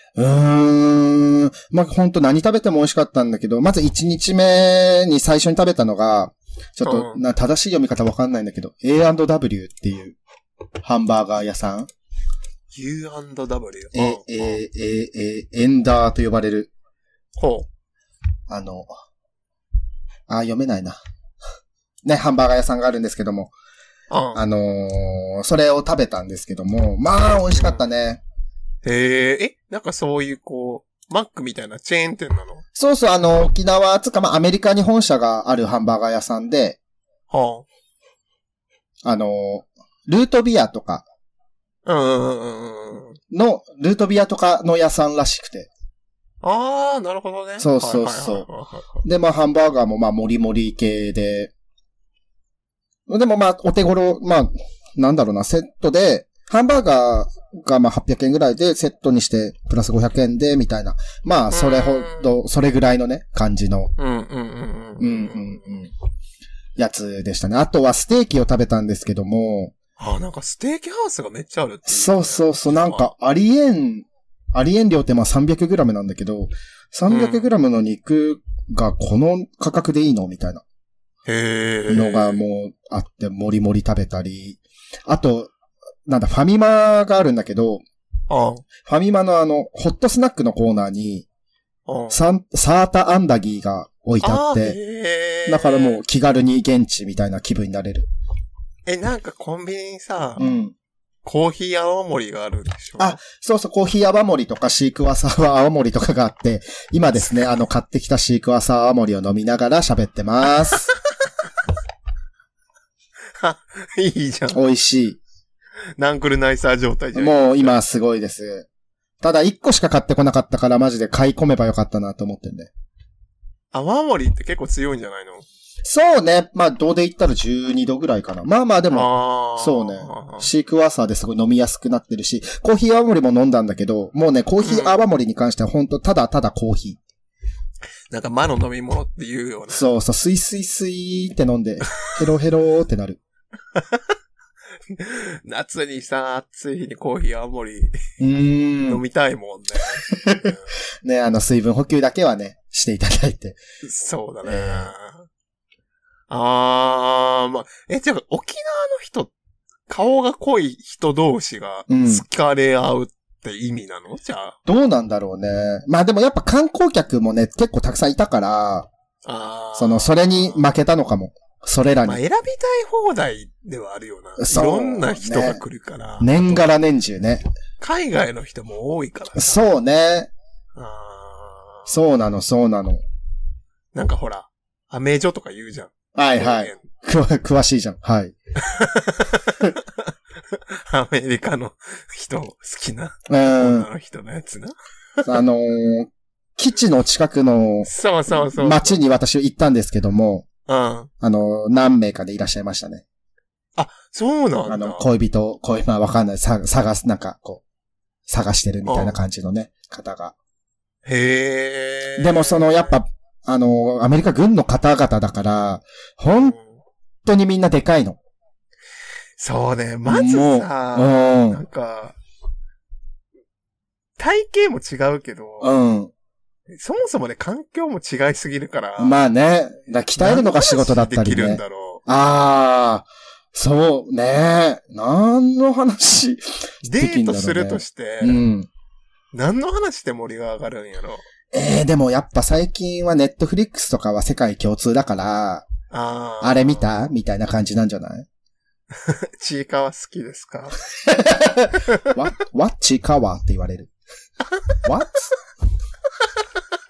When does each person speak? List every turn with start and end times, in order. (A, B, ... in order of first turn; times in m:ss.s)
0:00.2-0:10.2 A
0:06.8-0:07.2 B
0:10.8-0:11.9 A
0:12.7-0:14.6 B
0:13.9-0:16.7 A
0:17.4-0:17.7 B
0:18.5-0:18.9 A
0:20.3-0:21.0 A
0:22.0-0:23.5 A
0:24.1-0:24.4 B
0:24.3-0:28.2 A
0:28.8-0:32.6 B
0:32.8-0:36.8 A
0:37.3-0:37.6 B
0:39.0-0:41.0 A
0:41.8-0:43.2 B
0:43.3-0:45.7 A
0:46.4-0:49.0 B
0:47.6-0:48.5 A
0:49.0-0:51.5 A
0:53.1-1:03.9 A
1:01.5-1:02.3 B
1:04.0-1:05.6 B
1:05.0-1:05.9 A
1:06.8-1:09.7 A
1:10.0-1:13.1 B
1:11.9-1:20.6 A
1:17.1-1:17.5 B
1:21.3-1:22.4 B
1:21.9-1:25.5 A
1:26.0-1:27.8 A
1:28.3-1:28.6 B
1:28.8-1:31.2 A
1:31.9-1:32.2 B
1:32.1-1:34.8 A
1:34.2-1:36.0 B
1:35.4-1:38.1 A
1:38.8-1:40.5 B
1:40.4-1:40.7 A
1:41.2-1:43.2 B
1:43.0-1:50.9 A
1:53.4-1:54.6 B
1:54.5-1:55.2 A
1:56.0-1:57.8 B
1:57.1-1:58.7 A
1:59.2-2:02.7 A
2:03.7-2:05.4 B
2:05.8-2:17.0 A
2:08.9-2:10.5 B
2:14.6-2:15.0 B
2:18.1-2:19.9 B
2:19.7-2:23.2 A
2:24.9-2:27.9 B
2:28.2-2:29.0 A
2:28.9-2:30.7 B
2:30.1-2:30.5 A
2:31.0-2:33.6 A
2:33.8-2:35.2 B
2:34.4-2:34.9 A
2:36.3-2:39.3 B
2:39.9-2:44.6 B
2:41.9-2:42.2 A
2:44.6-2:48.9 A
2:49.2-2:50.7 B
2:49.8-2:52.2 A
2:52.0-2:56.3 B
2:54.4-2:55.6 A
2:56.2-2:57.4 A
2:57.8-2:59.6 B
2:59.4-3:00.3 A
3:00.8-3:01.9 B
3:01.9-3:03.0 A
3:03.9-3:06.8 B
3:06.1-3:08.4 A
3:08.6-3:15.3 B
3:13.3-3:13.9 A
3:15.2-3:20.4 A
3:17.8-3:19.0 B
3:20.7-3:21.1 B
3:21.2-3:23.0 A
3:23.8-3:25.0 B
3:24.7-3:27.6 A
3:28.3-3:30.3 A
3:28.8-3:29.2 B
3:31.0-3:32.9 B
3:32.2-3:36.6 A
3:36.4-3:36.7 B
3:37.2-3:38.2 A
3:39.4-3:42.2 B
3:40.1-3:41.6 A
3:44.2-3:45.7 B
3:45.6-3:46.1 A
3:46.7-3:49.2 B
3:49.0-3:58.7 A
3:50.2-3:52.0 B
3:56.8-3:58.4 B
3:59.3-4:01.2 B
4:01.5-4:05.6 A
4:05.9-4:06.9 B
4:06.4-4:08.3 A
4:09.0-4:10.8 B
4:11.1-4:13.9 A
4:11.9-4:12.1 B
4:14.8-4:15.3 A